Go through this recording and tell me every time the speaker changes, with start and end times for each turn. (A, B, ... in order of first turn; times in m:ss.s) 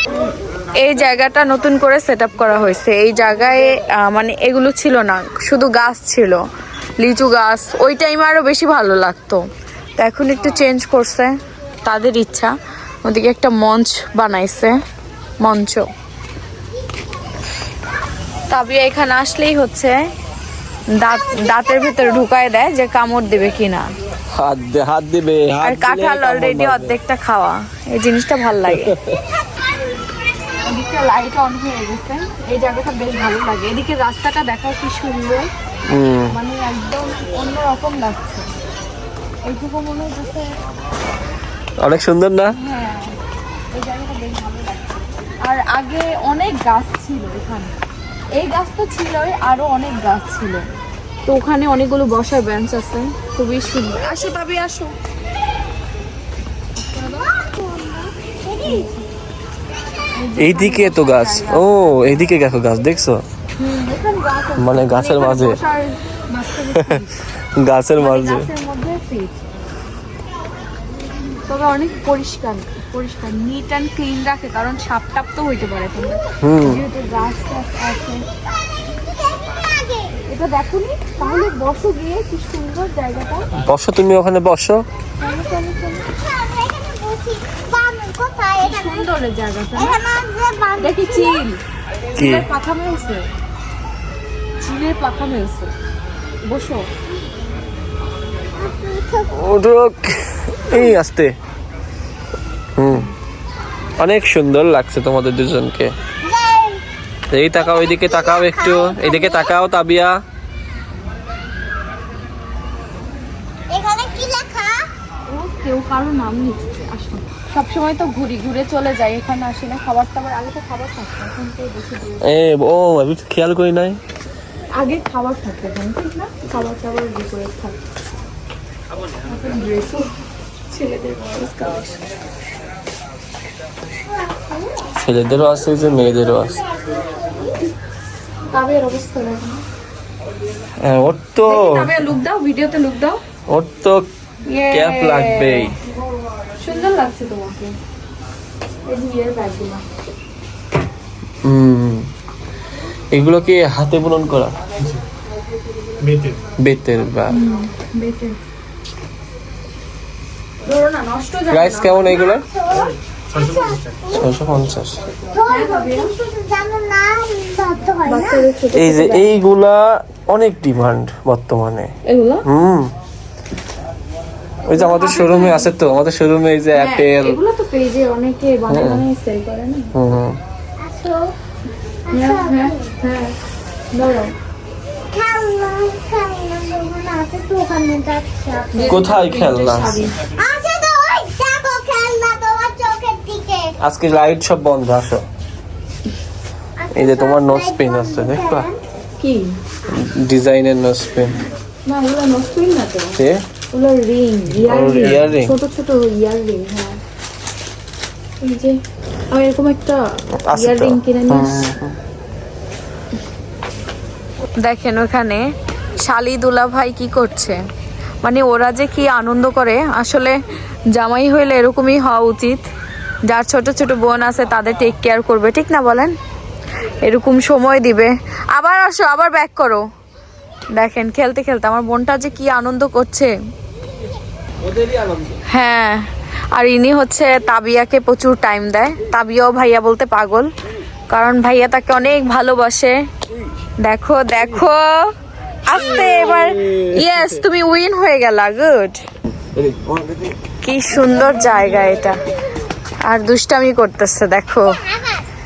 0:00.8-0:06.4 A
0:07.0-0:09.4 A
0:10.0-0:11.3 A
0:11.8-0:12.5 A
0:13.0-0:14.8 A
0:15.4-0:15.8 A
0:18.5-0:19.9 A
0:21.0-0:23.9 A
0:24.3-0:27.0 B
0:25.6-0:28.9 A
0:28.6-0:29.2 B
0:30.6-0:35.5 A
0:35.9-0:36.3 B
0:36.3-0:38.5 A
0:39.4-0:40.5 A
0:41.8-0:42.5 B
0:42.5-0:43.2 A
0:43.7-0:47.7 A
0:48.4-0:50.6 A
0:51.3-0:54.9 A
0:56.8-0:57.3 A
0:57.2-0:58.9 C
0:58.6-0:59.0 A
1:00.2-1:02.2 A
1:00.4-1:03.2 B
1:03.6-1:07.2 A
1:04.6-1:05.6 B
1:07.4-1:08.5 B
1:08.0-1:09.4 A
1:11.5-1:18.2 A
1:16.4-1:16.8 B
1:18.8-1:20.2 C
1:20.2-1:23.5 A
1:23.6-1:24.8 B
1:25.2-1:26.1 A
1:26.0-1:29.1 C
1:28.6-1:30.0 A
1:29.7-1:31.4 C
1:30.8-1:31.6 A
1:32.1-1:33.2 A
1:32.2-1:32.5 B
1:34.6-1:35.7 A
1:36.4-1:36.9 A
1:38.6-1:39.4 C
1:39.3-1:41.3 B
1:42.8-1:43.1 B
1:44.0-1:45.9 B
1:46.2-1:46.8 C
1:47.3-1:50.2 B
1:47.6-1:49.5 C
1:53.7-1:54.9 C
1:55.3-2:02.2 A
2:02.2-2:04.0 B
2:04.7-2:07.8 A
2:09.3-2:10.0 A
2:10.7-2:12.0 A
2:14.2-2:14.8 C
2:15.0-2:16.6 B
2:18.5-2:19.6 A
2:20.8-2:22.1 B
2:21.4-2:23.2 A
2:23.5-2:24.0 B
2:24.5-2:25.7 A
2:24.7-2:25.7 B
2:26.6-2:27.7 A
2:28.8-2:29.8 A
2:31.4-2:32.0 B
2:33.1-2:34.5 B
2:36.1-2:37.3 B
2:37.3-2:38.4 A
2:40.6-2:42.2 A
2:41.5-2:42.4 B
2:42.0-2:44.0 C
2:44.1-2:45.0 B
2:45.3-2:48.5 C
2:45.4-2:46.1 A
2:48.0-2:49.2 A
2:48.7-2:51.9 B
2:52.1-2:52.4 A
2:52.4-2:52.9 B
2:54.7-2:57.4 B
2:54.7-2:55.7 A
2:56.7-2:59.9 A
2:58.7-2:59.0 B
2:59.9-3:00.4 B
3:00.8-3:01.3 C
3:02.1-3:02.9 C
3:02.1-3:03.3 A
3:03.9-3:04.3 A
3:05.1-3:09.0 C
3:08.7-3:10.2 A
3:08.8-3:10.1 B
3:10.4-3:13.7 C
3:13.8-3:15.2 B
3:16.8-3:18.8 C
3:16.9-3:18.7 B
3:19.2-3:19.5 A
3:19.9-3:21.3 B
3:21.8-3:23.2 A
3:23.2-3:23.4 B
3:23.7-3:27.0 A
3:24.5-3:25.5 B
3:28.4-3:28.7 A
3:29.3-3:31.7 A
3:30.4-3:31.9 B
3:34.6-3:35.4 A
3:36.0-3:37.6 A
3:38.2-3:40.4 A
3:40.9-3:42.6 A
3:43.3-3:46.1 A
3:47.0-3:49.8 A
3:50.8-3:53.3 A
3:54.6-3:55.4 B
3:55.5-3:56.0 A
3:56.5-4:00.4 A
4:01.1-4:02.9 A
4:03.8-4:05.0 A
4:05.7-4:09.0 A
4:05.7-4:07.4 B
4:09.5-4:10.3 B
4:10.6-4:12.2 A
4:13.0-4:14.8 A